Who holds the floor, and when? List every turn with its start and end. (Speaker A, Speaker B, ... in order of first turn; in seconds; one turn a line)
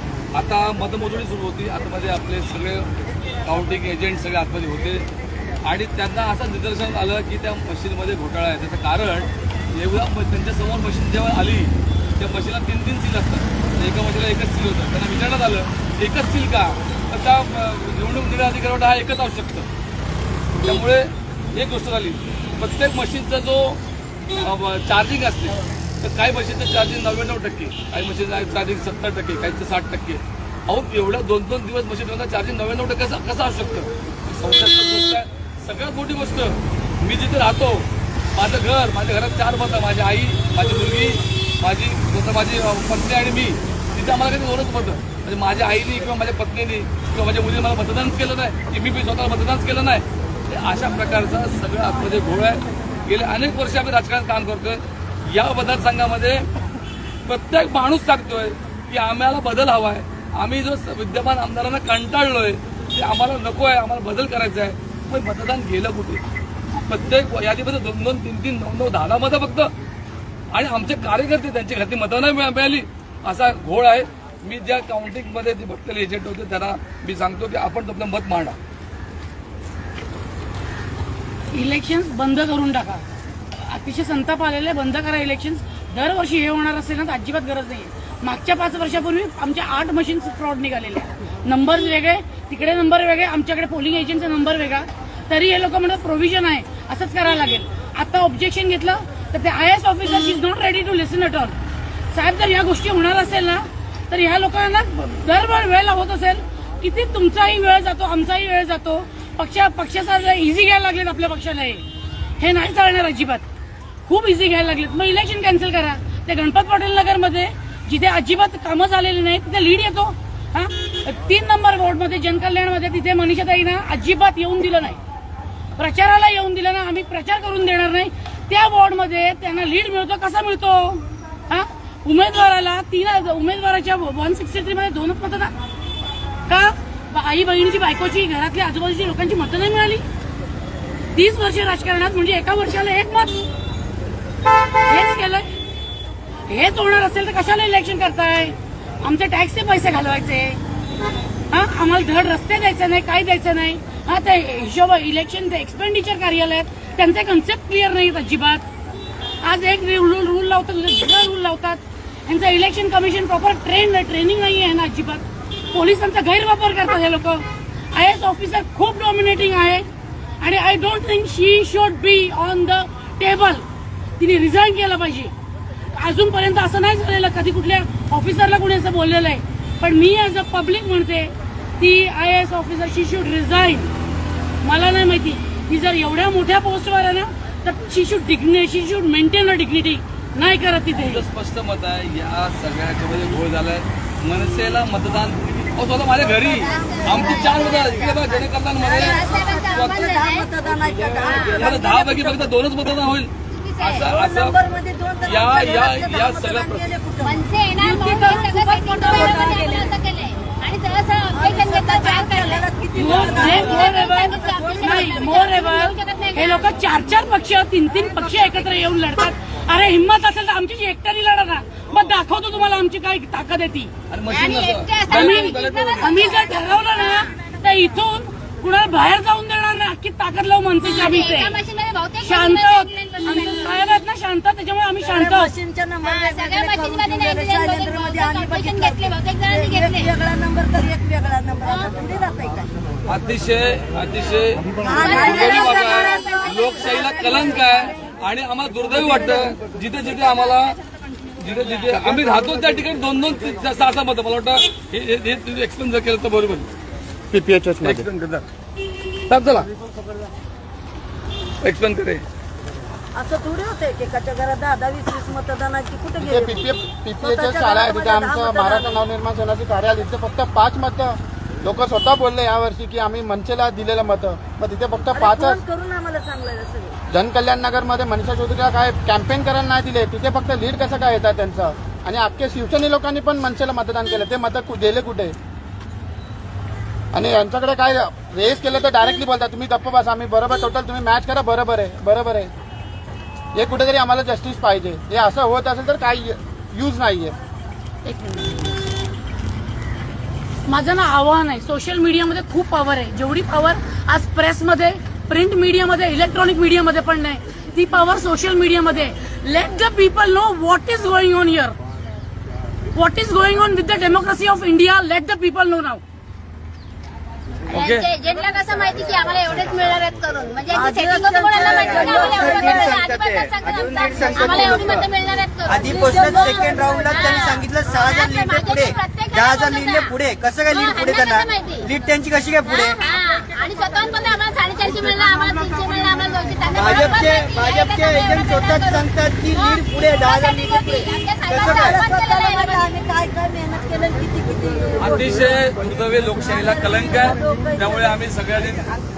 Speaker A: 0.3-2.9
Speaker A: 3.4-5.1
Speaker A: 5.6-19.7
Speaker A: 20.6-23.8
Speaker A: 24.3-56.5
Speaker A: 57.2-66.2
Speaker A: 66.8-69.7
Speaker A: 70.5-78.6
Speaker B: 81.5-83.0
Speaker B: 83.5-101.5
Speaker B: 102.1-111.8
Speaker B: 112.4-113.4
Speaker B: 114.0-125.0
Speaker B: 125.8-135.5
Speaker B: 136.5-140.0
Speaker B: 141.1-143.4
Speaker B: 144.9-145.5
Speaker B: 146.5-150.6
Speaker B: 151.5-158.6
Speaker B: 159.4-169.8
Speaker B: 170.4-173.6
Speaker B: 174.2-175.3
Speaker B: 175.9-183.9
Speaker B: 184.6-191.2
Speaker A: 190.9-200.0
Speaker C: 196.3-202.5
Speaker D: 196.6-198.0
Speaker D: 199.0-200.5
Speaker D: 201.2-201.7
Speaker A: 201.5-204.6
Speaker D: 203.5-204.1
Speaker C: 204.0-210.0
Speaker A: 205.2-206.9
Speaker D: 207.2-216.7
Speaker C: 211.3-215.4
Speaker B: 212.9-223.9
Speaker A: 224.1-226.2
Speaker D: 224.3-227.2
Speaker B: 225.1-231.6
Speaker D: 230.8-233.8
Speaker B: 232.2-235.5
Speaker C: 235.0-242.7
Speaker D: 236.0-240.2
Speaker D: 241.6-241.9
Speaker A: 243.1-250.8
Speaker C: 244.8-246.1
Speaker D: 245.0-247.9
Speaker A: 251.4-256.7
Speaker E: 257.3-258.1
Speaker A: 257.8-258.4
Speaker A: 259.3-259.7
Speaker A: 261.6-262.2
Speaker C: 263.1-269.0
Speaker E: 266.2-275.6
Speaker C: 275.1-276.9
Speaker E: 277.1-285.3
Speaker E: 287.1-292.5
Speaker E: 293.5-297.4
Speaker B: 298.0-298.8
Speaker B: 300.6-311.8
Speaker B: 312.9-316.0
Speaker A: 317.7-318.1
Speaker D: 317.7-330.2
Speaker C: 320.7-323.0
Speaker F: 321.6-325.1
Speaker F: 325.6-333.0
Speaker C: 326.4-327.1
Speaker D: 330.7-331.9
Speaker D: 332.6-342.9
Speaker F: 336.7-342.0
Speaker C: 336.8-337.3
Speaker C: 341.5-345.6
Speaker A: 345.0-348.9
Speaker C: 346.5-348.1